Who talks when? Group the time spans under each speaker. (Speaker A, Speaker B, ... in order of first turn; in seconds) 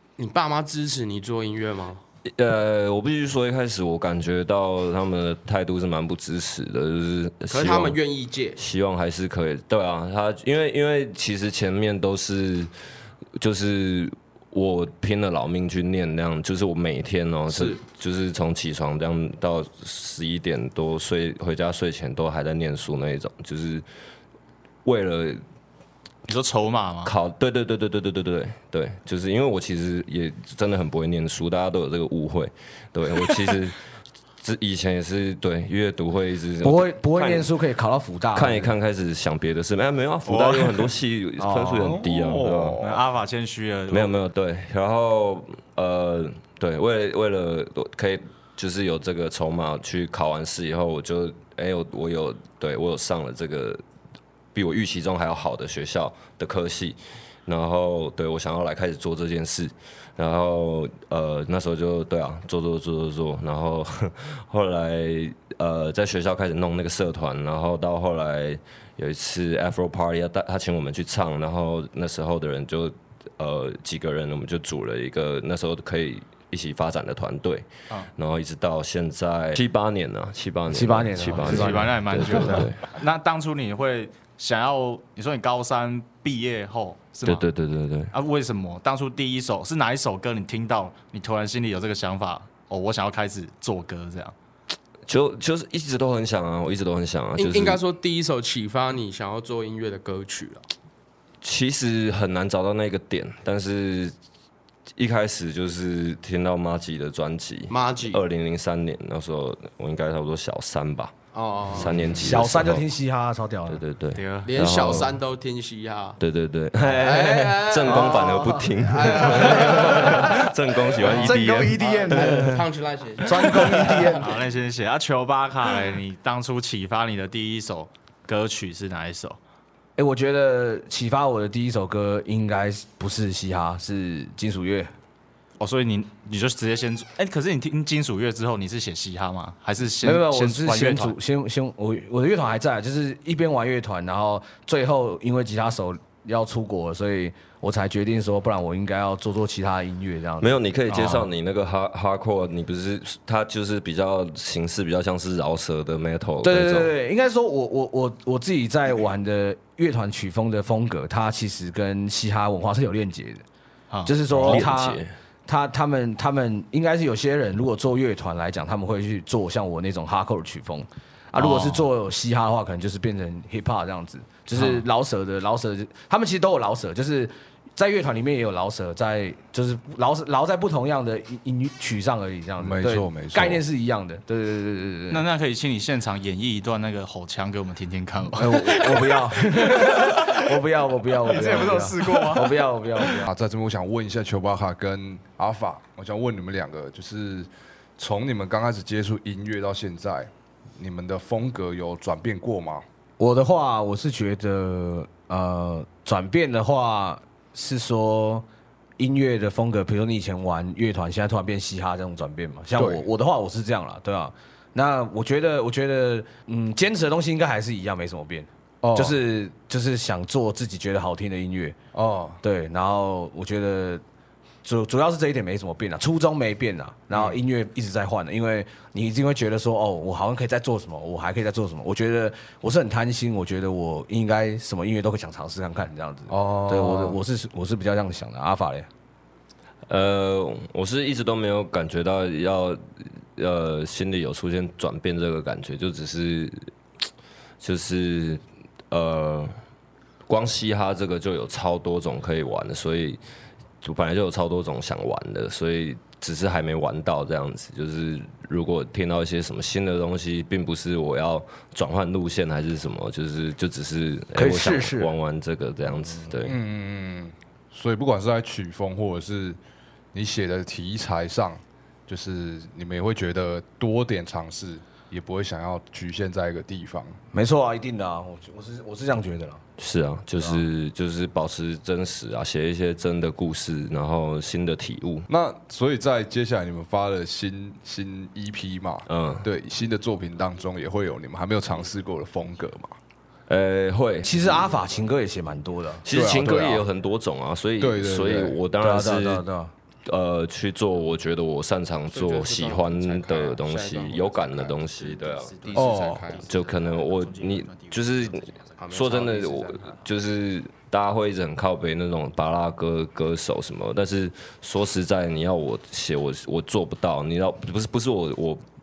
Speaker A: 0.2-2.0, 7.5-8.6, 17.5-17.8, 97.4-100.6, 107.7-108.2, 111.3-111.9, 114.5-116.2, 117.0-120.3, 121.8-124.0, 302.1-305.0, 305.6-306.5, 308.8-309.8
Speaker B: 2.3-8.0, 8.6-12.7, 13.4-23.9, 24.9-25.4, 27.1-33.8, 34.4-37.5, 38.3-42.8, 43.9-53.8, 54.5-82.8, 87.2-88.1, 95.1-97.8, 101.4-104.2, 105.0-111.1, 111.7-112.8, 113.7-115.2, 116.2-122.4, 150.4-156.9, 164.4-165.1, 239.9-242.8, 243.4-246.7, 247.6-249.5, 250.3-253.2, 253.8-266.6, 279.8-285.3, 289.1-289.5, 293.5-294.6, 296.0-299.4, 300.1-305.7, 306.5-318.6
Speaker C: 26.3-27.1, 40.3-40.9, 42.8-44.2, 81.3-87.5, 88.1-94.3, 114.2-114.5, 121.1-121.4, 124.2-129.4, 135.6-141.2, 150.9-151.3, 163.9-164.6, 171.4-171.8, 174.6-174.8, 185.1-190.5, 191.2-192.6, 305.0-308.8
Speaker D: 36.6-38.8, 41.4-42.0, 80.7-82.7, 112.2-113.8, 117.9-120.5, 121.1-122.6, 123.2-124.3, 130.0-134.9, 140.0-150.6, 156.4-163.4, 164.1-185.3, 188.3-193.3, 203.2-208.5, 209.0-221.8, 222.4-224.0, 224.6-238.9, 264.4-265.1, 277.3-279.6, 280.4-280.6, 294.2-296.1, 298.8-299.7
Speaker E: 41.8-43.0, 182.6-183.6, 193.3-202.8, 212.8-213.1, 218.8-219.2, 221.9-222.4, 227.1-227.4, 236.3-237.2, 266.4-269.6, 270.1-277.2, 285.3-292.9, 296.1-296.9, 297.8-298.6, 305.8-306.2